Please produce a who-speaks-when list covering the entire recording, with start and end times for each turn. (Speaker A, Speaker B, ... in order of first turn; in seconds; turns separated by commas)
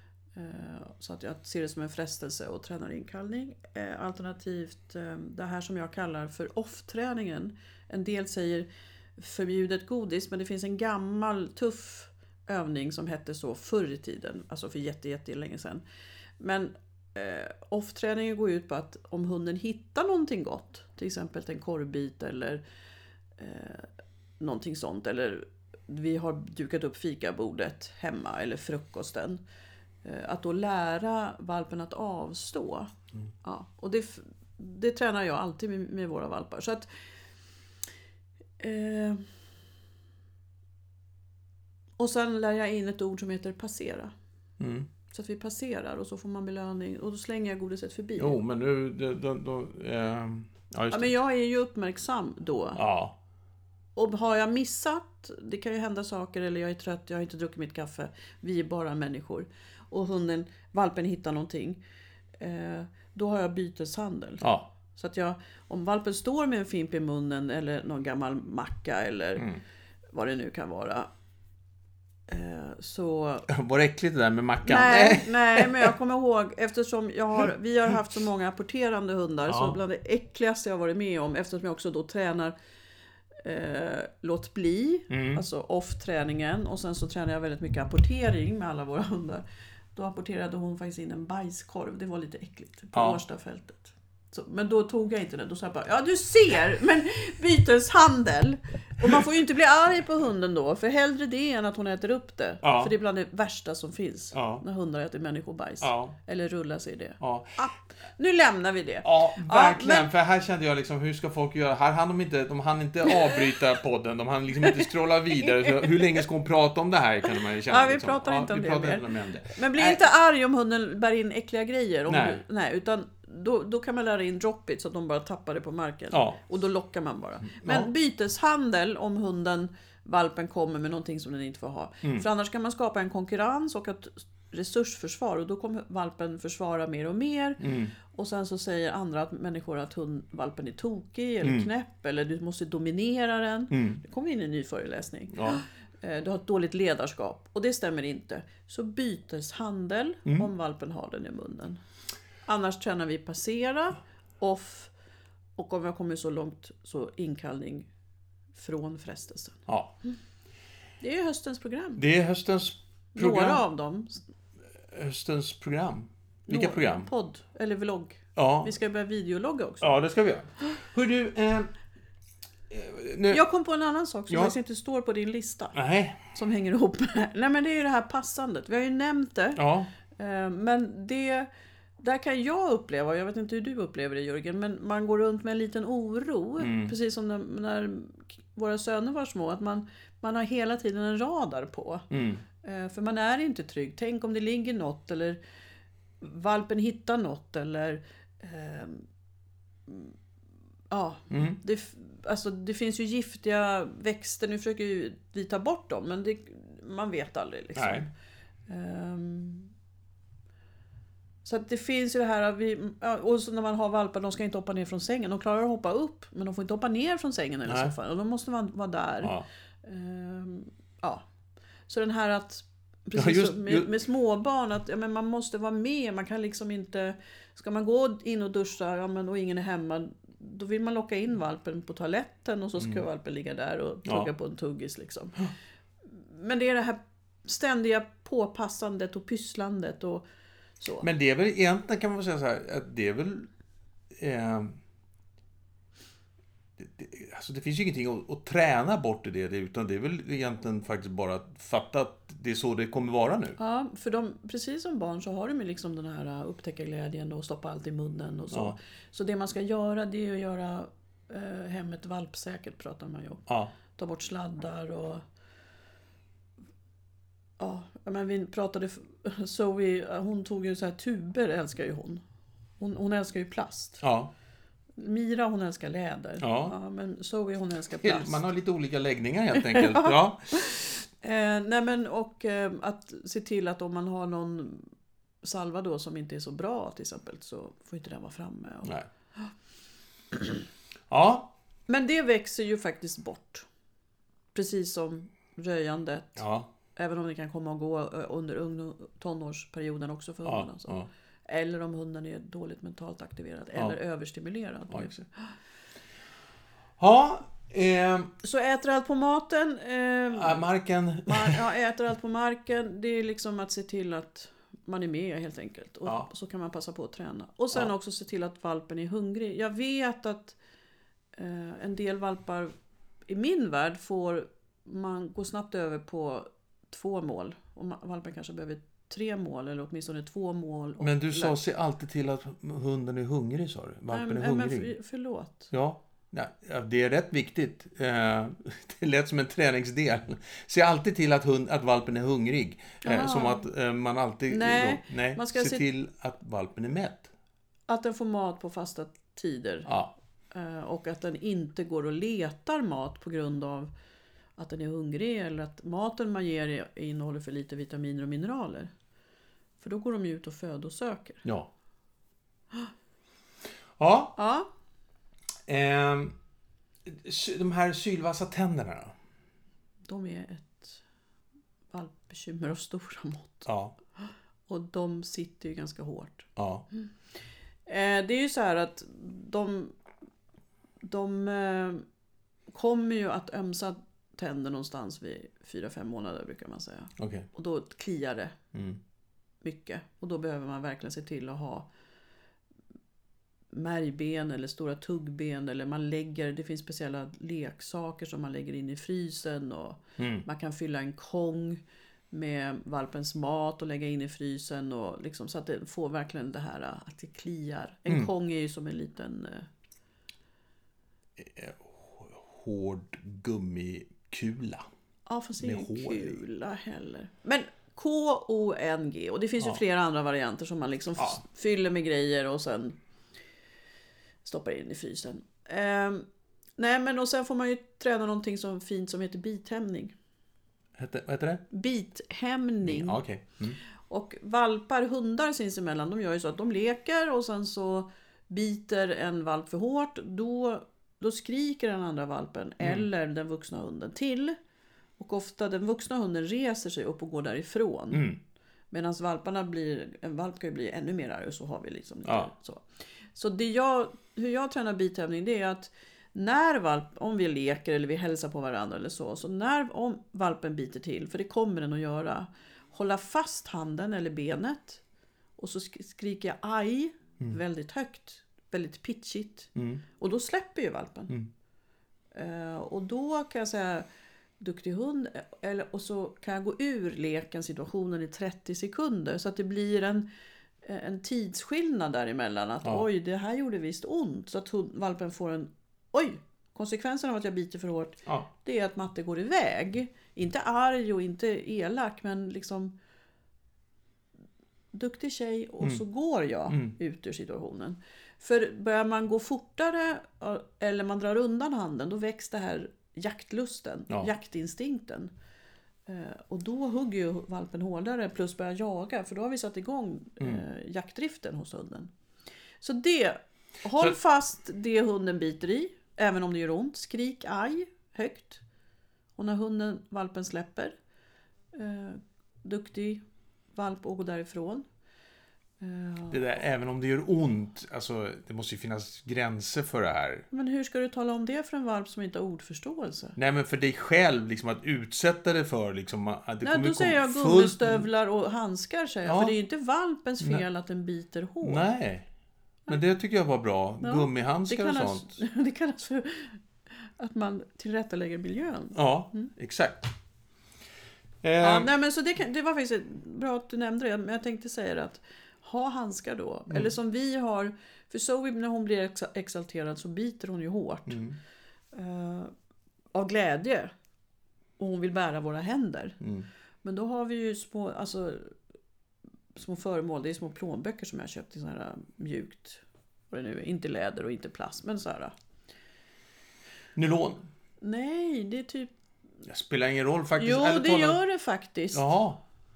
Speaker A: 0.3-15.8, Speaker A: 16.4-22.6, Speaker A: 23.4-23.9, Speaker A: 24.4-29.4, Speaker A: 30.0-32.9, Speaker A: 33.4-36.9, Speaker A: 38.6-39.2, Speaker A: 42.0-44.1, Speaker B: 44.6-44.9, Speaker A: 45.1-48.4, Speaker B: 48.2-51.1, Speaker A: 50.9-52.8, Speaker B: 52.8-53.1, Speaker A: 54.0-61.8, Speaker A: 62.4-69.5, Speaker B: 64.4-64.7, Speaker A: 70.1-71.1, Speaker A: 72.3-73.5, Speaker B: 73.5-75.9, Speaker A: 74.6-82.5, Speaker B: 79.5-79.8, Speaker A: 83.4-110.1, Speaker B: 85.1-85.4, Speaker B: 92.9-93.2, Speaker B: 102.6-102.9, Speaker B: 104.3-104.6, Speaker B: 105.8-106.2, Speaker B: 107.2-107.6, Speaker B: 109.0-120.0, Speaker A: 113.1-113.4, Speaker A: 115.3-116.2, Speaker A: 117.7-151.8, Speaker B: 122.1-122.4, Speaker B: 126.1-126.4, Speaker B: 127.5-127.9, Speaker B: 137.6-137.9, Speaker B: 141.4-141.7, Speaker B: 143.7-144.0, Speaker B: 145.3-145.6, Speaker A: 152.4-154.9, Speaker A: 155.6-157.9, Speaker A: 158.6-159.6, Speaker B: 159.7-159.9, Speaker A: 161.0-162.0, Speaker B: 162.0-163.7, Speaker A: 163.2-164.2, Speaker B: 164.9-167.1, Speaker A: 166.5-169.9, Speaker B: 168.3-168.7, Speaker B: 169.8-171.7, Speaker B: 172.7-173.4, Speaker A: 173.3-181.5, Speaker B: 175.7-176.3, Speaker B: 179.6-179.9, Speaker A: 182.0-195.4, Speaker B: 186.6-186.9, Speaker B: 192.1-192.4, Speaker A: 196.2-199.0, Speaker A: 199.9-200.2, Speaker A: 200.9-208.1, Speaker B: 201.3-201.6, Speaker B: 207.8-208.1, Speaker A: 208.7-209.7, Speaker A: 211.4-221.2, Speaker B: 217.7-217.9, Speaker A: 221.9-235.5, Speaker B: 223.2-223.9, Speaker B: 234.1-234.3, Speaker A: 236.1-240.2, Speaker A: 240.8-241.1, Speaker B: 241.0-243.5, Speaker B: 244.2-244.8, Speaker B: 246.8-253.6, Speaker A: 253.6-265.2, Speaker B: 263.5-263.8, Speaker A: 267.6-272.2, Speaker A: 272.8-274.0, Speaker B: 274.0-274.3, Speaker A: 275.0-278.5, Speaker B: 276.4-276.7, Speaker B: 277.9-280.7, Speaker A: 279.6-284.9, Speaker A: 285.4-289.5, Speaker B: 291.1-291.6, Speaker A: 291.9-293.7, Speaker A: 294.5-296.4, Speaker B: 296.4-296.7, Speaker A: 297.0-305.5, Speaker B: 300.4-301.1, Speaker B: 304.9-305.2, Speaker B: 307.0-308.3, Speaker A: 308.4-310.6, Speaker B: 310.3-311.7, Speaker A: 311.3-320.6, Speaker A: 321.3-322.7, Speaker A: 323.3-331.6, Speaker B: 331.0-334.9, Speaker A: 334.1-335.7, Speaker B: 335.7-347.3, Speaker A: 343.0-343.7, Speaker A: 344.5-345.9, Speaker A: 347.9-349.9, Speaker B: 349.9-350.1, Speaker A: 350.5-353.9, Speaker A: 354.6-358.9, Speaker A: 359.8-361.4, Speaker B: 361.4-361.7, Speaker B: 364.0-364.4, Speaker A: 364.4-364.7, Speaker B: 365.7-366.4, Speaker B: 367.1-369.1, Speaker A: 370.1-371.0, Speaker A: 371.9-373.7, Speaker B: 373.6-373.9, Speaker A: 374.2-377.1, Speaker B: 376.6-376.9, Speaker A: 377.9-380.0, Speaker A: 381.0-382.0, Speaker A: 382.7-388.6, Speaker B: 387.2-387.5, Speaker B: 388.7-389.0, Speaker A: 389.6-391.9, Speaker A: 393.7-409.7, Speaker B: 400.2-400.5, Speaker B: 411.4-414.9, Speaker A: 415.3-423.0, Speaker B: 415.6-416.4, Speaker A: 424.4-426.2, Speaker A: 426.8-430.1, Speaker B: 431.0-431.7, Speaker A: 431.7-433.2, Speaker B: 432.8-433.8, Speaker A: 434.0-444.6, Speaker A: 445.2-448.3, Speaker B: 448.1-448.4, Speaker A: 448.9-465.0, Speaker A: 465.6-471.3, Speaker B: 469.8-470.0, Speaker A: 472.3-474.1, Speaker A: 474.6-480.2, Speaker A: 480.8-492.9, Speaker A: 494.9-505.3, Speaker B: 496.7-496.9, Speaker A: 506.1-512.1, Speaker A: 512.8-518.6, Speaker A: 519.4-520.9, Speaker A: 521.7-523.2, Speaker A: 523.7-524.9, Speaker A: 525.8-526.4, Speaker B: 526.3-530.5, Speaker A: 530.5-533.4, Speaker B: 533.4-538.1, Speaker A: 536.6-541.9, Speaker B: 539.2-539.5, Speaker B: 541.6-542.3, Speaker B: 542.9-545.4, Speaker A: 544.0-549.5, Speaker B: 549.0-550.1, Speaker B: 551.4-551.9, Speaker A: 551.6-561.2, Speaker B: 561.1-561.4, Speaker A: 561.9-562.5, Speaker A: 563.1-563.9, Speaker A: 564.8-566.2, Speaker B: 566.2-566.5, Speaker A: 566.8-568.5, Speaker A: 569.5-575.3, Speaker B: 577.0-577.5, Speaker A: 577.8-578.9, Speaker B: 579.5-581.2, Speaker A: 580.4-582.1, Speaker B: 581.9-582.4